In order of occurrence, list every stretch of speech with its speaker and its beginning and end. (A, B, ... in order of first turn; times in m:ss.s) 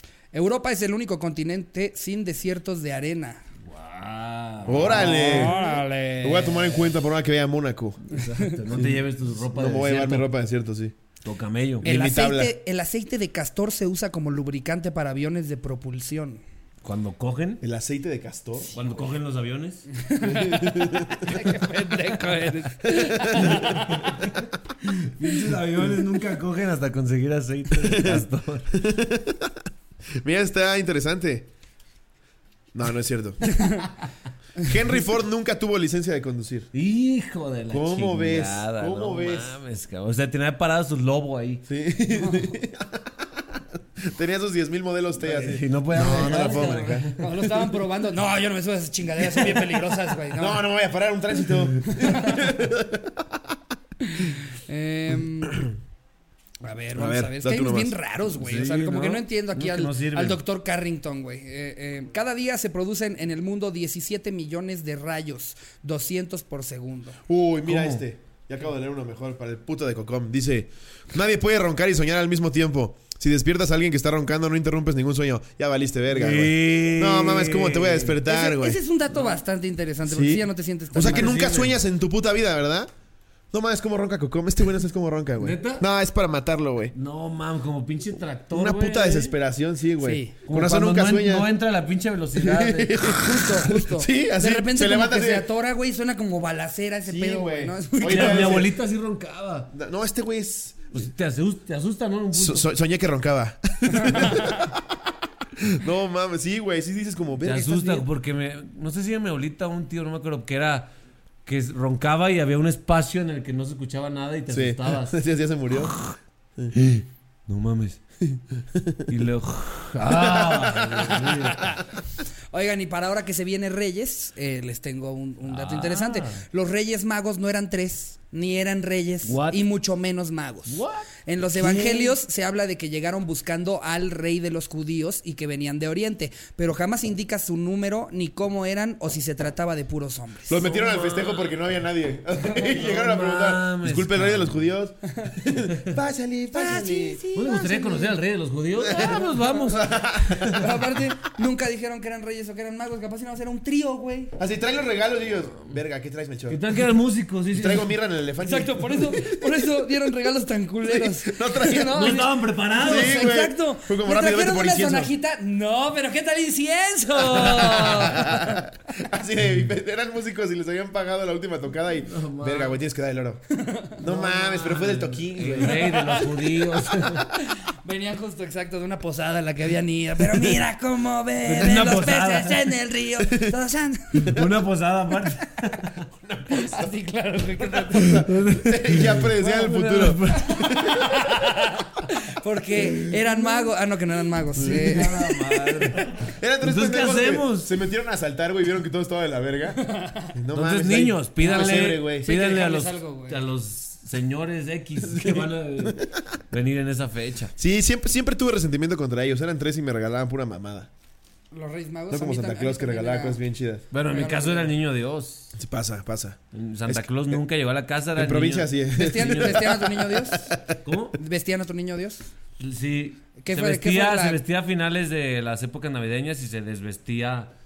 0:00.3-0:03.4 A
0:03.6-0:05.6 B
0:04.7-0:05.6 C
0:04.8-0:06.8 A
0:06.2-0:08.0 C
0:08.1-0:10.3 B
0:08.2-0:08.6 A
0:09.5-0:11.0 C
0:11.2-0:11.9 B
0:11.8-0:12.5 C
0:11.8-0:16.4 A
0:16.8-0:17.6 B
0:17.6-0:18.7 C
0:18.7-0:19.9 B
0:19.9-0:24.0 A
0:20.2-0:21.4 C
0:22.8-0:24.4 C
0:23.4-0:24.3 B
0:24.8-0:28.7 B
0:27.8-0:29.6 C
0:30.2-0:31.5 C
0:32.7-0:33.6 C
0:33.4-0:33.9 A
0:34.6-0:36.7 C
0:36.7-0:41.6 B
0:37.7-0:39.6 C
0:41.7-0:47.1 C
0:42.2-0:42.5 A
0:45.2-0:47.2 B
0:46.1-0:50.6 A
0:49.2-0:49.8 C
0:50.3-0:53.4 C
0:51.9-0:52.6 A
0:54.0-0:55.6 A
0:56.6-1:07.2 A
0:57.0-0:58.0 C
0:58.3-1:00.4 B
1:07.3-1:18.8 C
1:07.7-1:08.0 B
1:16.1-1:18.2 B
1:18.3-1:21.5 A
1:20.1-1:22.9 C
1:21.0-1:21.8 B
1:23.5-1:26.9 C
1:25.4-1:25.8 B
1:26.9-1:29.4 B
1:28.5-1:31.5 C
1:30.0-1:30.4 A
1:30.4-1:32.9 B
1:32.4-1:35.5 C
1:33.0-1:38.7 A
1:37.1-1:38.7 C
1:38.0-1:39.7 B
1:39.7-1:41.1 C
1:40.9-1:42.7 B
1:42.3-1:45.0 C
1:44.0-1:44.6 A
1:45.6-1:48.1 C
1:47.4-1:50.9 B
1:51.5-1:55.2 B
1:54.5-1:56.0 C
1:55.7-1:56.2 B
1:56.7-1:58.4 B
1:58.7-1:59.1 C
1:59.1-2:01.8 B
2:00.0-2:01.5 C
2:02.5-2:20.7 A
2:05.5-2:06.4 B
2:09.2-2:09.6 B
2:10.7-2:12.2 B
2:20.5-2:27.2 C
2:20.6-2:21.6 B
2:22.6-2:24.6 B
2:26.5-2:28.2 A
2:27.4-2:30.6 B
2:28.8-2:30.9 C
2:28.9-2:29.5 A
2:30.5-2:34.3 A
2:34.4-2:36.6 C
2:36.5-2:37.9 B
2:37.5-2:39.6 C
2:38.4-2:48.6 A
2:40.8-2:42.0 C
2:41.9-2:43.2 B
2:42.8-2:45.1 C
2:47.3-2:48.1 B
2:48.0-2:53.4 C
2:52.1-2:52.8 B
2:53.5-2:54.8 A
2:54.0-2:55.9 C
2:54.1-2:57.3 B
2:55.6-3:04.4 A
3:01.5-3:02.7 B
3:03.2-3:03.6 C
3:04.2-3:06.0 B
3:06.2-3:06.9 C
3:06.5-3:08.3 A
3:07.6-3:11.5 C
3:07.9-3:10.7 B
3:10.4-3:16.0 A
3:14.6-3:15.2 C
3:14.6-3:17.7 B
3:16.2-3:19.8 C
3:19.8-3:20.3 A
3:20.3-3:22.4 C
3:20.5-3:27.6 B
3:21.4-3:23.4 A
3:25.0-3:26.2 C
3:27.6-3:30.9 C
3:31.5-3:33.4 A
3:32.1-3:33.9 C
3:33.9-3:35.6 B
3:34.0-3:34.7 A
3:35.6-3:37.4 C
3:36.5-3:39.7 B
3:38.2-3:40.8 C
3:39.0-3:40.5 A
3:40.8-3:41.2 B
3:41.2-3:42.2 A
3:42.6-3:47.5 B
3:43.4-3:44.4 A